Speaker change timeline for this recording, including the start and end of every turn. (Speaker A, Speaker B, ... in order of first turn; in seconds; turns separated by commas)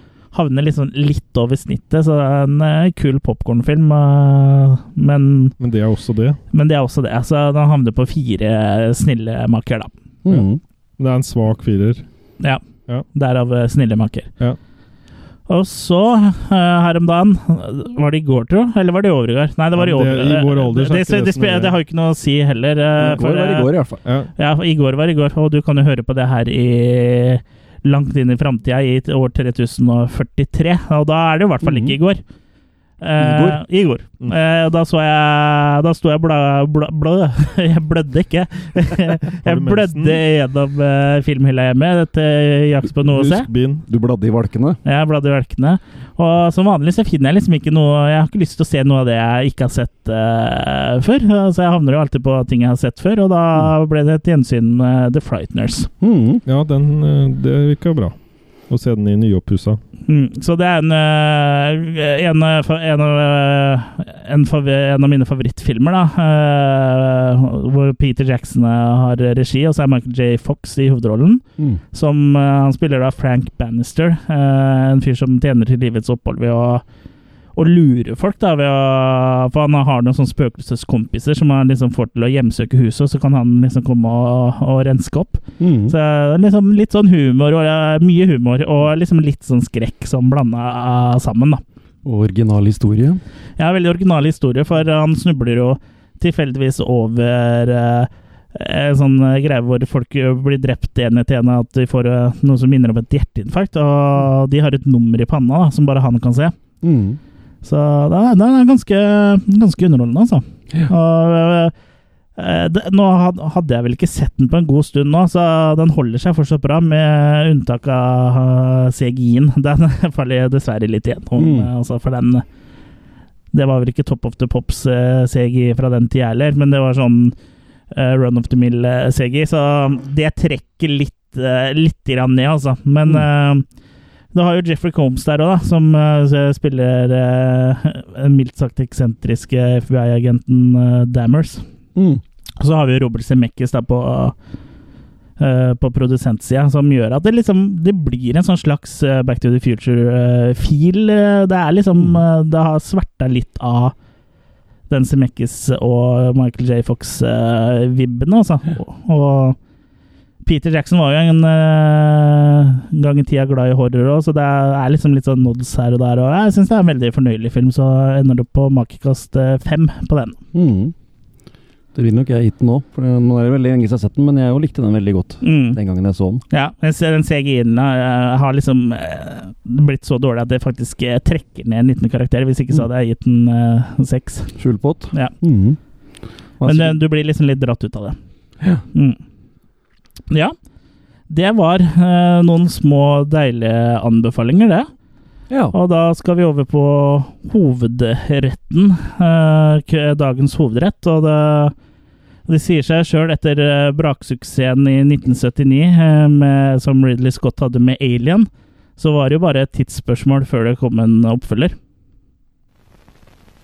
Speaker A: 0.3-5.5, Speaker B: 5.6-6.4, Speaker A: 6.5-9.9, Speaker C: 10.2-10.6, Speaker B: 11.0-12.1, Speaker A: 13.1-14.3, Speaker A: 15.5-23.7, Speaker B: 19.8-21.8, Speaker C: 23.0-24.0, Speaker B: 24.1-24.3, Speaker A: 24.4-32.2, Speaker C: 31.6-32.0, Speaker A: 33.0-43.5, Speaker C: 33.2-33.6, Speaker B: 39.3-40.2, Speaker B: 43.0-43.9, Speaker C: 43.9-44.8, Speaker A: 44.9-55.9, Speaker C: 56.0-56.4, Speaker B: 56.5-58.1, Speaker B: 58.7-59.8, Speaker A: 60.1-76.8, Speaker A: 77.5-91.6, Speaker C: 85.6-86.0, Speaker C: 92.0-93.2, Speaker A: 93.6-106.5, Speaker C: 106.8-107.2, Speaker A: 107.6-111.7, Speaker A: 112.4-122.4, Speaker C: 121.4-121.7, Speaker A: 123.5-127.3, Speaker A: 127.9-133.7, Speaker A: 134.3-141.6, Speaker C: 142.0-142.2, Speaker A: 142.6-144.3, Speaker A: 145.4-153.9, Speaker A: 154.9-159.6, Speaker A: 160.4-170.4, Speaker C: 170.5-170.9, Speaker C: 171.9-176.4, Speaker A: 175.4-175.8, Speaker A: 176.5-184.5, Speaker C: 184.6-185.8, Speaker C: 186.6-187.0, Speaker A: 186.7-188.2, Speaker A: 188.9-189.2, Speaker A: 191.3-194.9, Speaker C: 195.5-195.8, Speaker A: 195.7-201.7, Speaker A: 202.5-211.8